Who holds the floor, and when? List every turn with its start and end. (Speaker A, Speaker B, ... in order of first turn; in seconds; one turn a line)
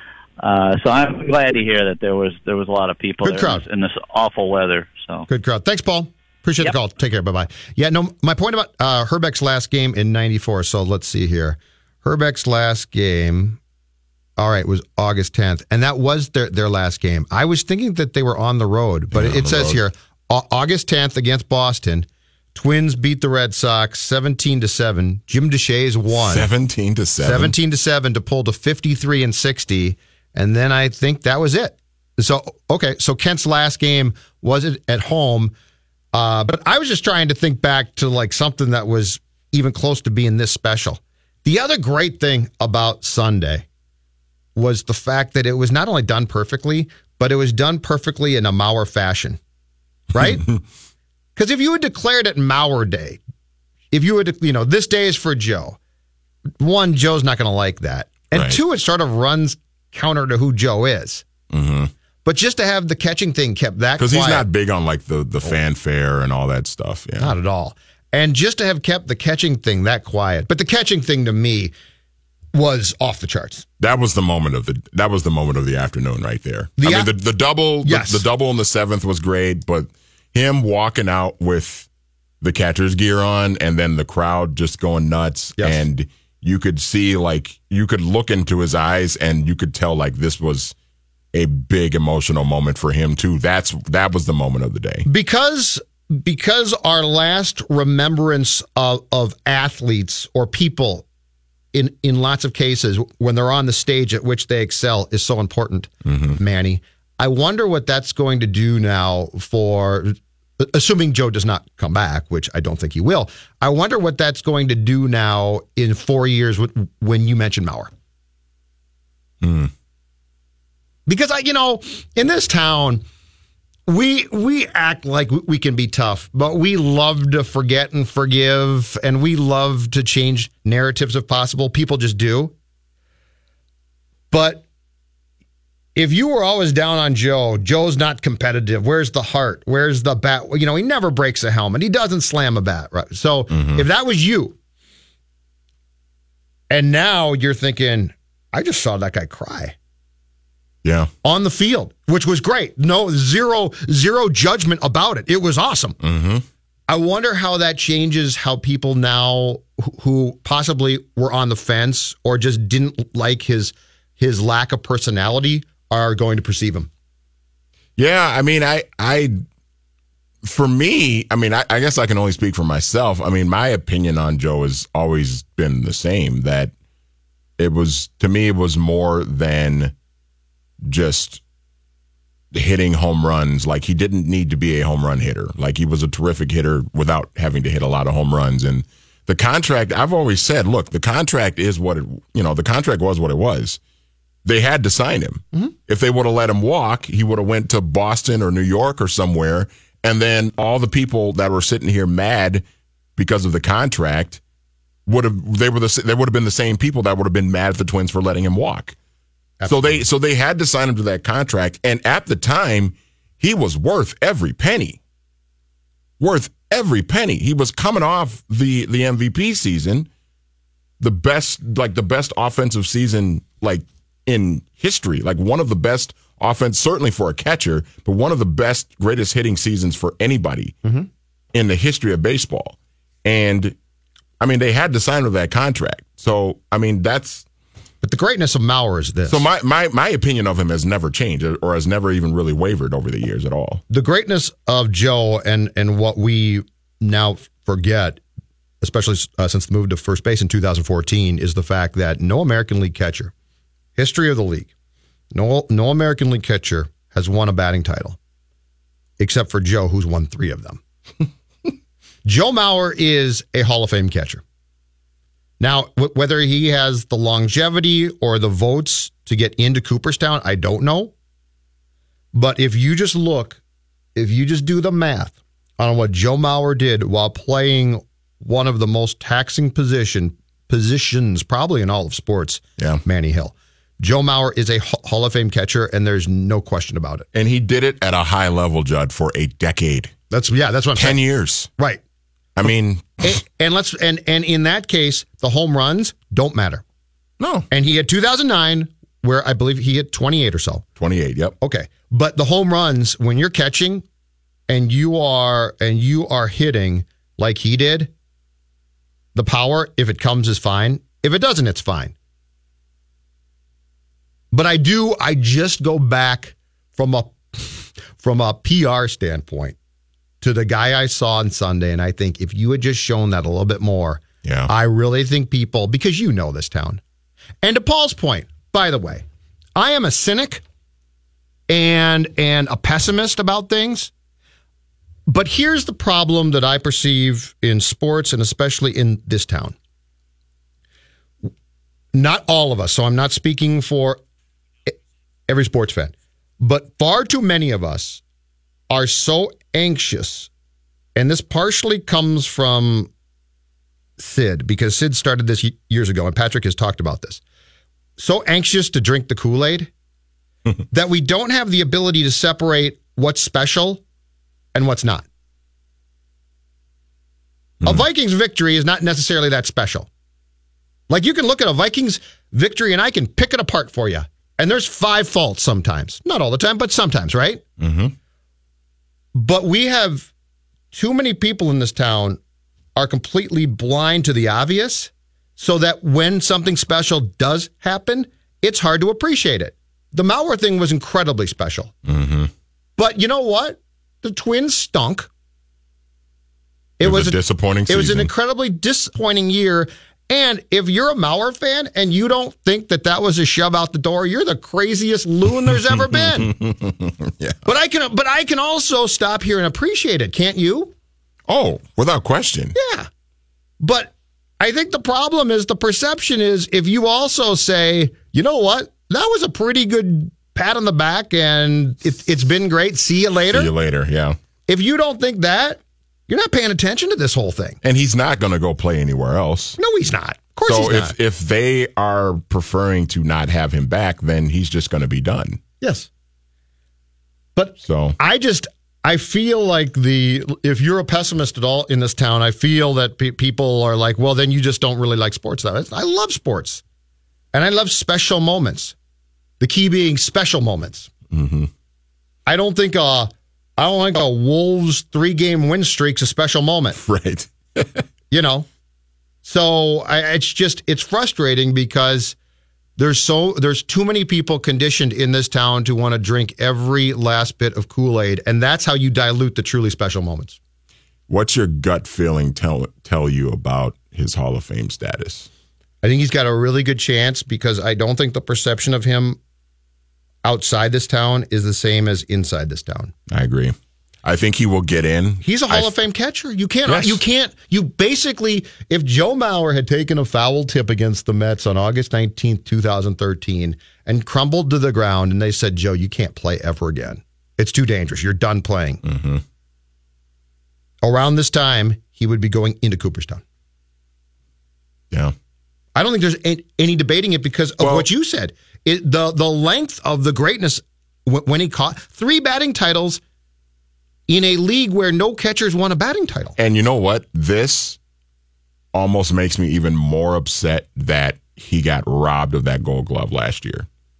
Speaker A: 0.4-5.3
Speaker B: 3.2-3.6
Speaker B: 5.3-13.6
Speaker B: 14.4-26.5
Speaker C: 19.1-19.8
Speaker C: 26.1-27.5
Speaker B: 27.2-35.5
Speaker B: 36.1-43.6
Speaker B: 44.5-49.4
Speaker B: 50.1-50.4
Speaker C: 50.2-50.6
Speaker B: 51.4-53.2
Speaker B: 53.9-55.8
Speaker B: 56.6-61.2
Speaker C: 58.3-58.6
Speaker C: 61.5-61.9
Speaker B: 62.2-64.4
Speaker C: 64.0-67.3
Speaker B: 67.2-71.7
Speaker B: 72.5-73.6
Speaker C: 73.8-81.9
Speaker B: 76.8-77.1
Speaker B: 77.8-78.2
Speaker C: 82.4-90.7
Speaker C: 91.3-95.0
Speaker B: 95.0-101.0
Speaker B: 101.7-117.9
Speaker C: 106.0-106.4
Speaker C: 119.4-119.7
Speaker B: 121.1-123.0
Speaker B: 123.9-132.5
Speaker B: 134.3-134.6
Speaker B: 135.9-144.6
Speaker C: 143.5-143.8
Speaker B: 146.7-149.7
Speaker C: 150.8-151.1
Speaker B: 151.2-156.0
Speaker C: 156.0-156.4
Speaker B: 156.9-166.9
Speaker C: 168.0-169.4
Speaker C: 170.4-176.7
Speaker C: 177.6-179.9
Speaker C: 180.8-181.4
Speaker C: 182.5-193.8
Speaker C: 194.4-202.6
Speaker C: 203.2-204.4
Speaker C: 205.1-208.9
Speaker B: 209.6-210.0
Speaker C: 209.7-215.0
Speaker C: 216.2-220.1
Speaker C: 221.0-230.7
Speaker C: 231.5-233.7
Speaker C: 234.4-237.4
Speaker B: 238.0-239.4
Speaker C: 239.3-243.8
Speaker B: 243.9-248.2
Speaker B: 248.8-253.3
Speaker B: 254.0-254.7
Speaker B: 255.3-258.2
Speaker B: 259.2-260.8
Speaker B: 262.2-264.4
Speaker B: 265.6-271.1
Speaker B: 272.3-273.6
Speaker B: 274.1-287.2
Speaker C: 287.3-290.1
Speaker B: 290.3-291.2
Speaker C: 290.9-291.7
Speaker C: 292.6-293.3
Speaker B: 293.2-296.8
Speaker C: 297.4-297.7
Speaker B: 297.7-300.8
Speaker C: 301.0-301.5
Speaker B: 301.6-304.0
Speaker B: 304.7-308.1
Speaker B: 309.3-312.1
Speaker B: 314.5-319.8
Speaker B: 320.4-327.0
Speaker C: 324.4-324.7
Speaker B: 327.6-329.2
Speaker B: 329.8-330.6
Speaker B: 331.7-334.1
Speaker B: 335.3-339.7
Speaker B: 342.1-344.2
Speaker B: 345.5-348.2
Speaker B: 348.9-350.5
Speaker B: 351.1-353.1
Speaker B: 354.2-357.4
Speaker B: 358.2-359.9
Speaker B: 360.9-364.0
Speaker B: 364.7-365.2
Speaker B: 367.8-370.1
Speaker B: 371.1-377.6
Speaker C: 377.8-378.1
Speaker B: 379.3-380.3
Speaker B: 380.9-382.4
Speaker B: 382.9-391.9
Speaker C: 392.1-392.5
Speaker B: 393.0-395.3
Speaker B: 397.0-397.4
Speaker C: 397.0-398.3
Speaker B: 397.9-406.5
Speaker C: 405.9-407.6
Speaker B: 407.6-410.9
Speaker C: 411.5-412.7
Speaker B: 412.7-413.1
Speaker B: 413.8-423.7
Speaker C: 423.5-424.4
Speaker B: 424.7-427.8
Speaker C: 427.8-429.8
Speaker B: 429.8-431.1
Speaker C: 430.7-435.6
Speaker B: 435.8-436.1
Speaker B: 437.6-446.8
Speaker C: 437.8-438.2
Speaker B: 447.5-448.9
Speaker B: 449.6-451.1
Speaker C: 451.3-451.7
Speaker B: 452.4-457.0
Speaker C: 456.9-458.0
Speaker B: 458.3-458.7
Speaker B: 459.4-462.4
Speaker B: 463.0-470.6
Speaker C: 471.3-475.5
Speaker B: 476.0-479.4
Speaker B: 480.4-483.1
Speaker C: 483.3-485.9
Speaker B: 485.4-499.0
Speaker C: 486.9-487.2
Speaker C: 499.0-499.4
Speaker B: 501.0-503.4
Speaker B: 505.9-513.2
Speaker C: 507.8-508.1
Speaker B: 514.3-516.5
Speaker C: 516.6-518.0
Speaker C: 518.9-523.9